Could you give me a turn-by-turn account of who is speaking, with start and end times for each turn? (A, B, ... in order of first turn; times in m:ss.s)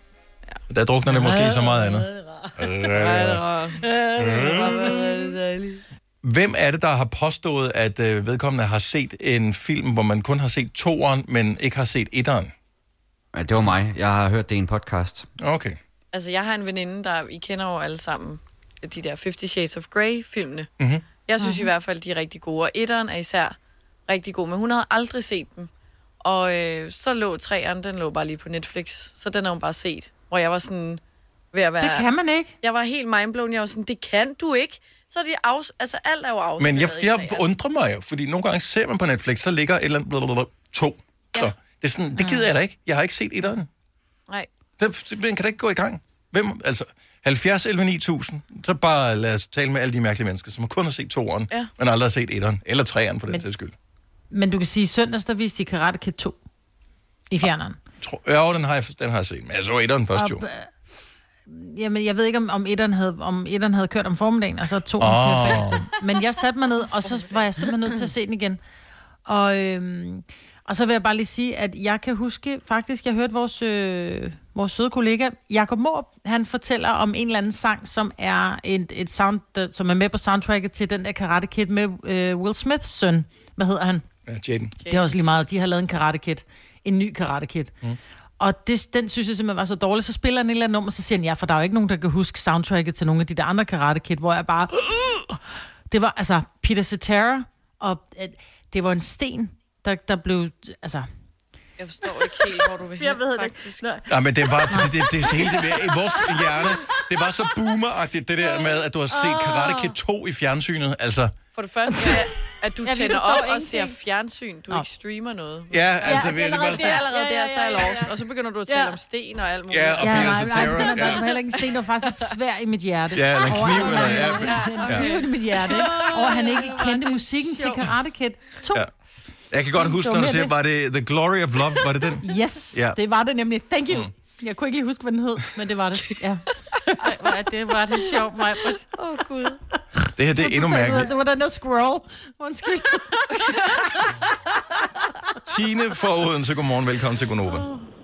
0:00.7-0:03.4 A
0:01.1-0:02.9 B
0:02.8-0:05.8 C
0:03.8-0:05.4 B
0:06.2-0:12.5 A
0:13.3-0:15.3 D
0:15.4-0:15.8 A
0:16.1-0:20.7 C
0:20.8-0:21.0 A
0:21.3-0:25.7 C
0:21.4-0:21.7 E
0:26.2-0:31.0 C
0:31.5-0:32.1 C
0:31.8-0:32.5 E
0:32.6-0:37.4 C
0:36.6-0:43.7 A
0:42.2-0:42.4 E
0:44.8-0:53.7 A
0:54.3-0:56.4 E
0:57.3-0:57.8 E
0:58.0-1:00.4 A
1:00.1-1:00.7 E
1:01.5-1:08.6 E
1:05.0-1:05.9 A
1:09.2-1:24.0 E
1:24.2-1:24.8 A
1:24.8-1:25.4 C
1:24.9-1:27.7 E
1:28.4-1:41.1 E
1:41.8-1:43.9 C
1:43.0-1:44.0 B
1:44.1-1:51.3 A
1:44.7-1:47.0 B
1:48.6-1:49.9 B
1:51.5-2:01.3 C
1:52.8-1:53.9 B
1:55.7-1:57.0 A
1:56.0-1:58.1 B
1:58.7-1:59.0 B
1:59.7-2:01.2 A
2:00.0-2:08.8 E
2:03.1-2:05.1 A
2:03.6-2:06.0 C
2:03.8-2:04.3 B
2:05.5-2:07.8 B
2:09.5-2:13.0 A
2:09.8-2:10.5 E
2:12.2-2:16.9 E
2:17.0-2:18.8 B
2:18.9-2:19.6 C
2:20.2-2:21.1 A
2:20.4-2:23.6 E
2:25.4-2:27.7 A